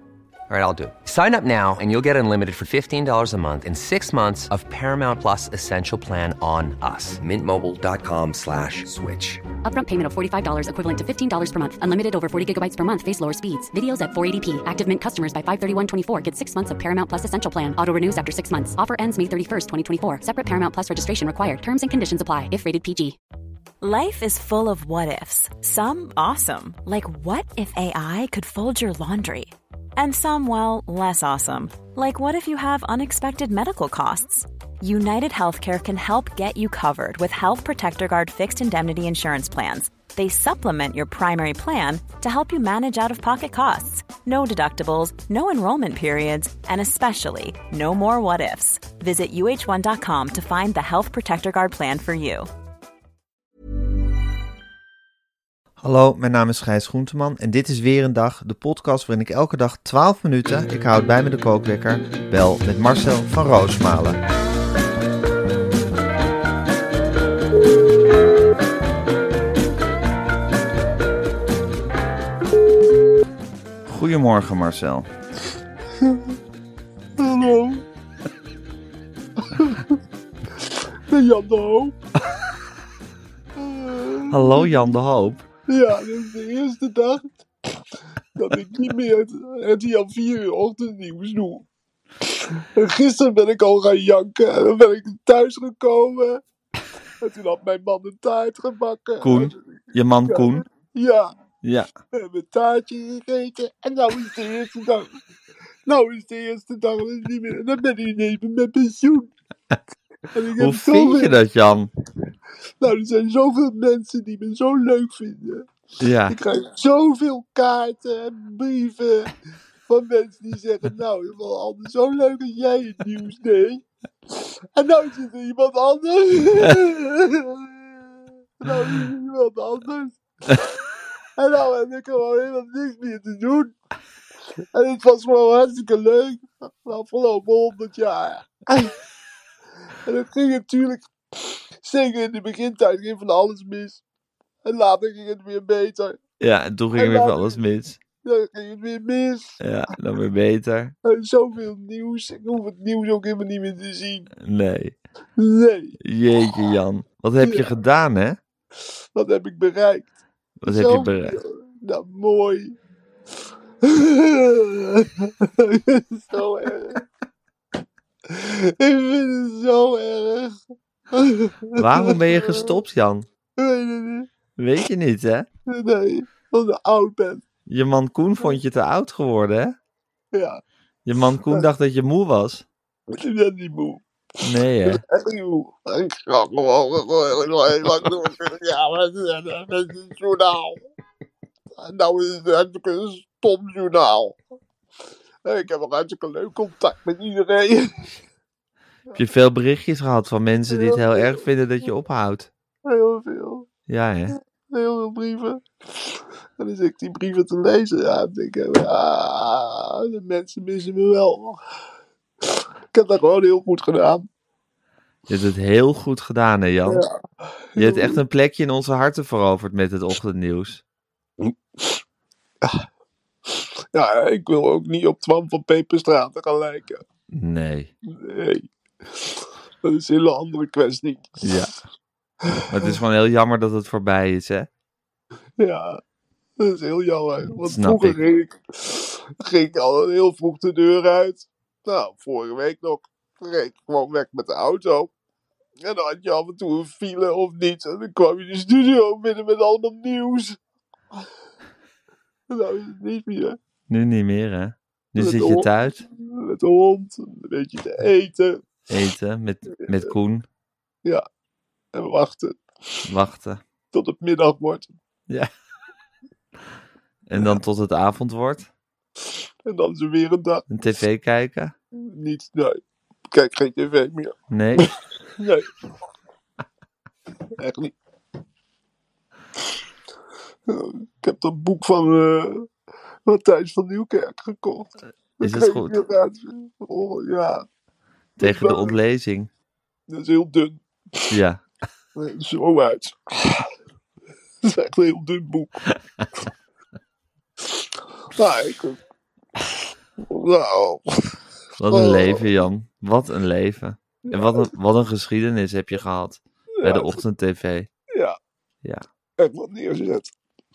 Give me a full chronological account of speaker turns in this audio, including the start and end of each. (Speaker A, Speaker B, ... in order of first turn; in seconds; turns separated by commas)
Speaker A: 0.5-9.4, Speaker B: 9.6-23.2, Speaker C: 23.8-52.5, Speaker D: 55.8-64.2, Speaker D: 73.9-75.1, Speaker E: 77.2-77.8, Speaker E: 81.1-81.9, Speaker E: 83.6-84.3, Speaker D: 84.3-85.5, Speaker E: 85.7-87.3, Speaker E: 88.4-91.7, Speaker E: 92.8-96.4, Speaker E: 97.2-99.5, Speaker D: 99.2-100.7, Speaker E: 100.3-101.3, Speaker D: 101.6-101.9, Speaker E: 102.2-105.1, Speaker E: 105.9-109.3, Speaker E: 110.3-111.4, Speaker D: 110.5-111.9, Speaker E: 112.8-115.6, Speaker D: 116.0-116.4, Speaker E: 116.3-119.3, Speaker E: 119.9-123.8, Speaker E: 124.8-127.5, Speaker E: 128.6-130.2, Speaker E: 131.4-133.7, Speaker E: 134.8-138.9, Speaker E: 140.1-141.0, Speaker E: 141.8-144.0, Speaker E: 144.7-146.2, Speaker D: 146.4-148.0, Speaker E: 147.0-147.4, Speaker E: 148.2-149.6, Speaker D: 149.6-150.9, Speaker E: 151.1-154.3, Speaker D: 154.4-154.9, Speaker E: 155.4-155.9, Speaker D: 156.0-158.4, Speaker E: 159.2-160.1, Speaker D: 160.6-161.4, Speaker E: 160.7-162.7, Speaker E: 163.9-165.0, Speaker E: 165.6-167.0, Speaker E: 168.3-170.5, Speaker E: 171.2-171.8, Speaker D: 171.8-173.3, Speaker E: 173.6-174.3, Speaker D: 174.6-175.5, Speaker E: 175.7-177.4, Speaker D: 177.7-179.8, Speaker D: 181.1-182.7, Speaker E: 183.1-184.0, Speaker D: 184.4-185.0, Speaker E: 184.9-190.8, Speaker E: 191.8-194.4, Speaker E: 195.5-197.9, Speaker D: 199.2-202.5, Speaker E: 202.9-203.7, Speaker D: 203.9-204.4, Speaker E: 204.7-205.6, Speaker E: 206.6-211.6, Speaker E: 212.9-214.3, Speaker D: 215.3-217.0, Speaker D: 217.8-220.8, Speaker E: 217.8-218.1, Speaker E: 223.9-227.0, Speaker D: 227.3-227.9, Speaker E: 228.3-228.6, Speaker E: 229.8-231.4, Speaker D: 231.4-231.7, Speaker D: 232.7-234.7, Speaker E: 235.6-235.9, Speaker E: 236.6-245.1, Speaker D: 237.6-238.2, Speaker E: 245.8-250.6, Speaker E: 252.5-253.6, Speaker D: 253.9-256.1, Speaker E: 255.2-255.7, Speaker E: 256.4-258.6, Speaker D: 258.9-260.5, Speaker E: 261.9-262.6, Speaker D: 263.1-263.6, Speaker E: 263.9-264.9, Speaker D: 267.3-268.7, Speaker E: 269.7-270.7, Speaker D: 270.7-271.8, Speaker E: 272.1-272.8, Speaker E: 273.3-274.3, Speaker D: 274.5-274.9, Speaker E: 275.4-275.6, Speaker E: 277.6-277.9, Speaker E: 280.7-282.6, Speaker E: 283.3-284.9, Speaker D: 285.4-286.0, Speaker E: 285.4-287.6, Speaker D: 288.4-289.5, Speaker E: 288.4-288.9, Speaker E: 290.1-290.8, Speaker D: 291.3-291.6, Speaker E: 292.2-293.6, Speaker E: 294.6-295.8, Speaker E: 298.4-299.0, Speaker E: 300.3-301.4, Speaker D: 301.8-307.9, Speaker E: 301.9-302.4, Speaker E: 304.3-304.6, Speaker E: 306.8-307.1, Speaker E: 309.4-310.3